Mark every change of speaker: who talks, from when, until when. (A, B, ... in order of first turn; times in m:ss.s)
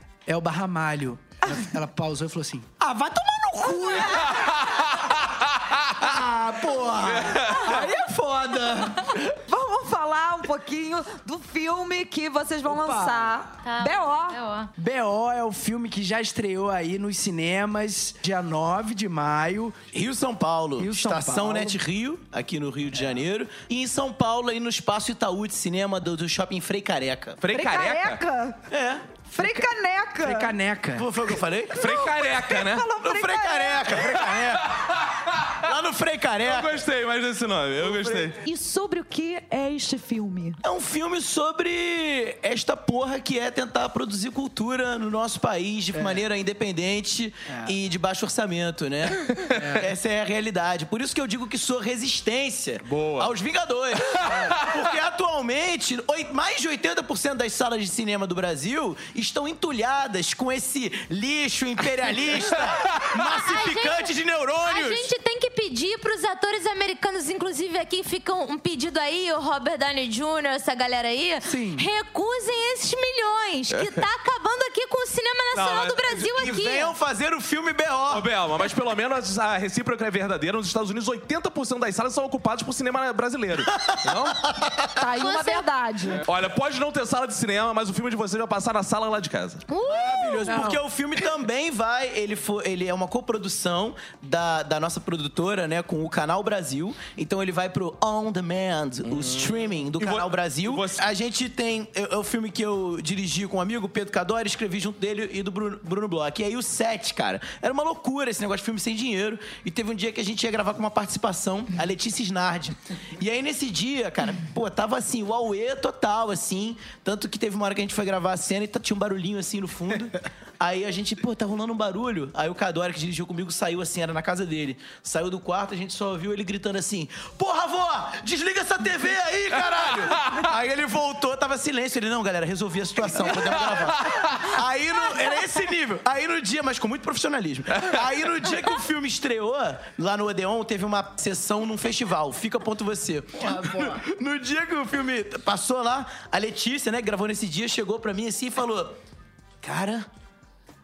0:00.3-0:04.8 A
0:04.2-0:06.0 B
0:06.0-0:09.3 A
0:07.0-0:07.9 B
0:09.5-0:14.4 C
0:12.7-0:13.4 A
0:13.6-0:14.7 D
0:14.8-0:19.8 A
0:19.9-0:27.4 E
0:20.8-0:21.8 A
0:27.4-0:28.2 B
0:27.5-0:28.6 C
0:28.7-0:29.2 E
0:29.3-0:31.1 A
0:29.4-0:30.5 C
0:31.0-0:31.8 E
0:31.7-0:32.9 B
0:31.9-0:33.9 C
0:33.0-0:34.8 E
0:33.9-0:35.5 B
0:35.5-0:36.8 E
0:36.4-0:38.4 B
0:37.8-0:38.3 E
0:38.4-0:40.6 C
0:40.6-1:05.1 E
0:45.9-0:46.2 A
0:47.5-0:47.7 A
0:49.6-0:49.9 A
0:52.8-0:53.3 B
0:54.0-0:54.8 B
1:03.3-1:16.9 D
1:11.4-1:11.9 A
1:13.7-1:14.0 B
1:15.5-1:16.5 B
1:16.3-1:18.3 E
1:18.1-1:24.5 B
1:23.7-1:24.9 E
1:25.0-1:26.2 C
1:25.2-1:25.7 D
1:26.2-1:29.6 B
1:29.7-1:30.6 D
1:29.8-2:29.0 E
1:30.4-1:30.8 A
1:39.0-1:41.0 B
2:09.7-2:10.5 B
2:13.2-2:14.6 B
2:17.8-2:18.0 B
2:23.4-2:24.0 A
2:29.6-2:30.1 E